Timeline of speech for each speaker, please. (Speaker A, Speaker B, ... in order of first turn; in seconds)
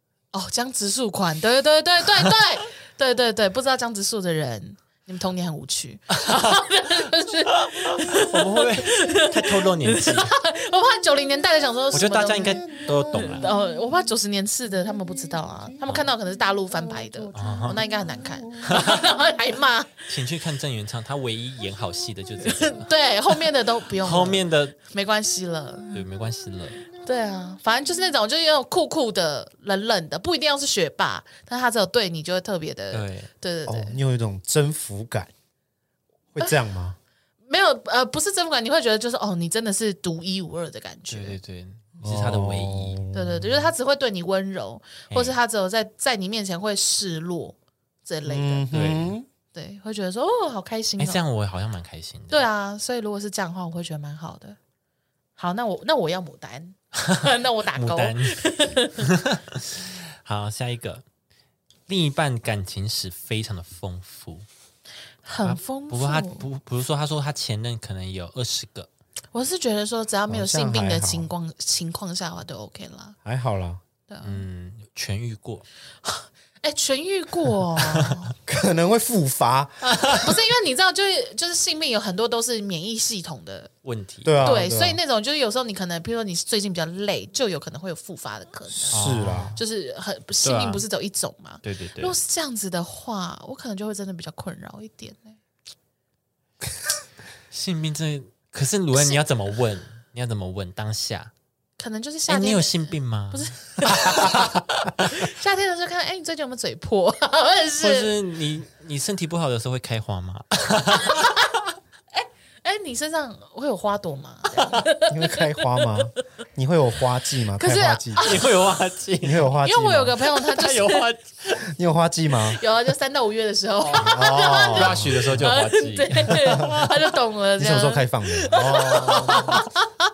Speaker A: 0.3-20.1, 22.4-26.0, 26.9-34.0, 37.5-41.4, 43.1-48.7, 49.5-51.2, 52.3-54.6, 55.4-59.1, 65.2-66.5, 69.3-73.2, 74.1-74.4, 76.0-78.3, 80.1-83.7, 84.4-95.4, 98.9-99.2, 101.8-104.5, 105.0-108.1, 111.0-111.4, 112.1-116.1, 117.5-118.5, 119.6-121.1, 122.5-129.8
Speaker B: 6.1-6.7, 7.5-10.3, 11.9-13.5, 17.3-17.8, 18.6-19.1, 20.1-22.9, 24.0-24.8, 25.9-26.9, 32.9-33.3, 41.1-43.0, 45.1-45.4, 48.7-49.1, 51.0-52.4, 57.0-61.0, 61.9-64.5, 65.4-68.9, 74.2-75.6, 79.8-80.3, 83.8-84.5, 88.9-89.6, 90.4-90.8, 91.6-92.2, 97.5-101.3, 102.3-105.1, 107.8-111.4, 114.5-114.8, 118.2-119.5, 120.3-121.7, 123.9-126.9, 129.2-129.6
Speaker C: 12.8-13.4, 17.4-18.2, 33.6-35.3, 36.3-37.0, 42.0-43.7, 48.2-49.3, 70.3-71.3, 73.2-73.8, 78.5-80.0, 84.2-85.0, 88.7-89.6, 115.0-118.3, 119.2-120.2, 121.7-122.6, 123.9-125.5, 127.6-129.7